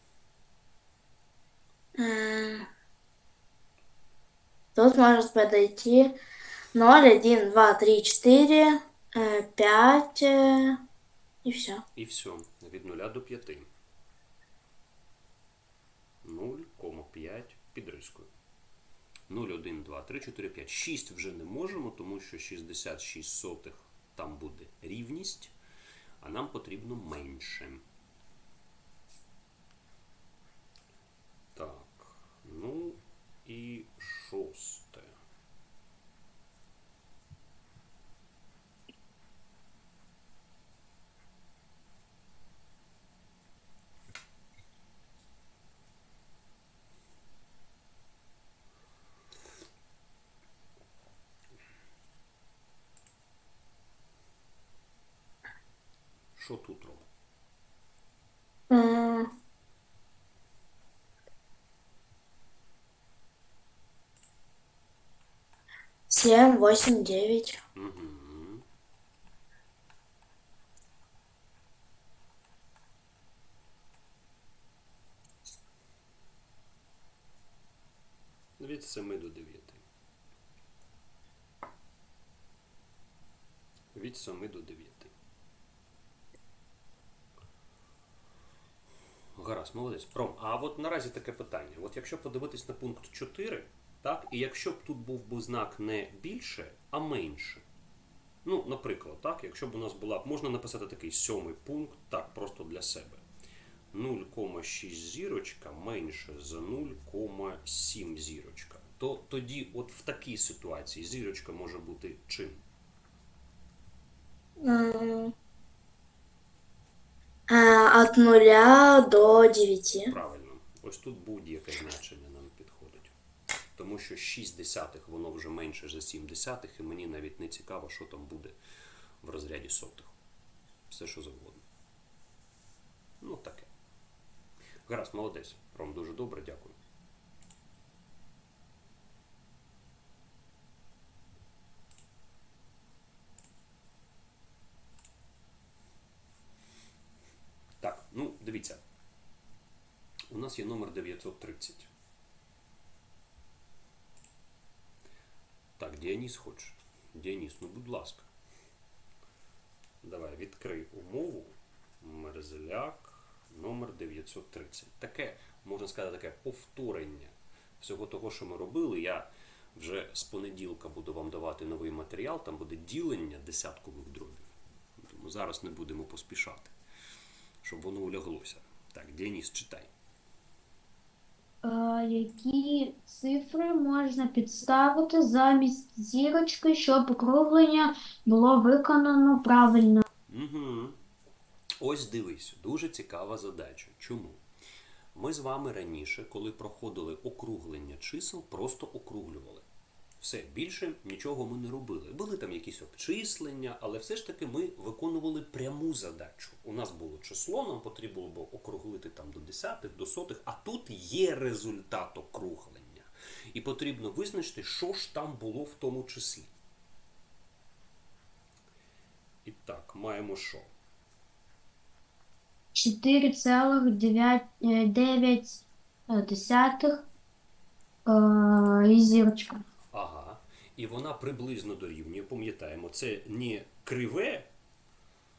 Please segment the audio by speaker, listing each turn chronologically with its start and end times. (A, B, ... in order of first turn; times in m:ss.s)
0:02.0-0:02.7 A
0:04.7-0:06.2 A
0:06.7-0:10.8 A
0:11.4-0:11.8 A
0:12.0-0:13.7 B
0:16.2-0:18.3 B
0:19.3-0:25.5 B
0:26.2-0:27.8 B
0:31.5-0:35.2 B
0:56.4-0:57.1 B
0:58.7-0:59.3 A
1:06.1-1:07.6 A
1:07.7-1:08.6 B
1:18.6-1:19.8 B
1:23.9-1:25.1 B
1:29.4-1:37.6 B
1:38.4-1:43.2 B
1:43.9-1:52.6 B
1:54.6-1:55.3 A
1:57.5-2:00.1 A
2:00.1-2:03.1 B
2:03.8-2:08.6 B
2:09.2-2:10.2 B
2:10.9-2:11.6 B
2:13.2-2:13.7 B
2:14.9-2:16.8 B
2:27.8-2:28.8 B
2:30.3-2:31.9 B
2:35.8-2:38.3 B
2:40.0-2:56.7 B
2:57.6-2:59.9 B
3:01.6-3:10.0 C
3:10.3-3:11.0 B
3:11.8-3:14.4 B
3:15.1-3:19.6 B
3:20.2-3:36.5 B
3:39.4-3:40.7 B
3:42.7-3:47.0 C
3:48.0-3:49.6 C
3:49.9-3:54.5 B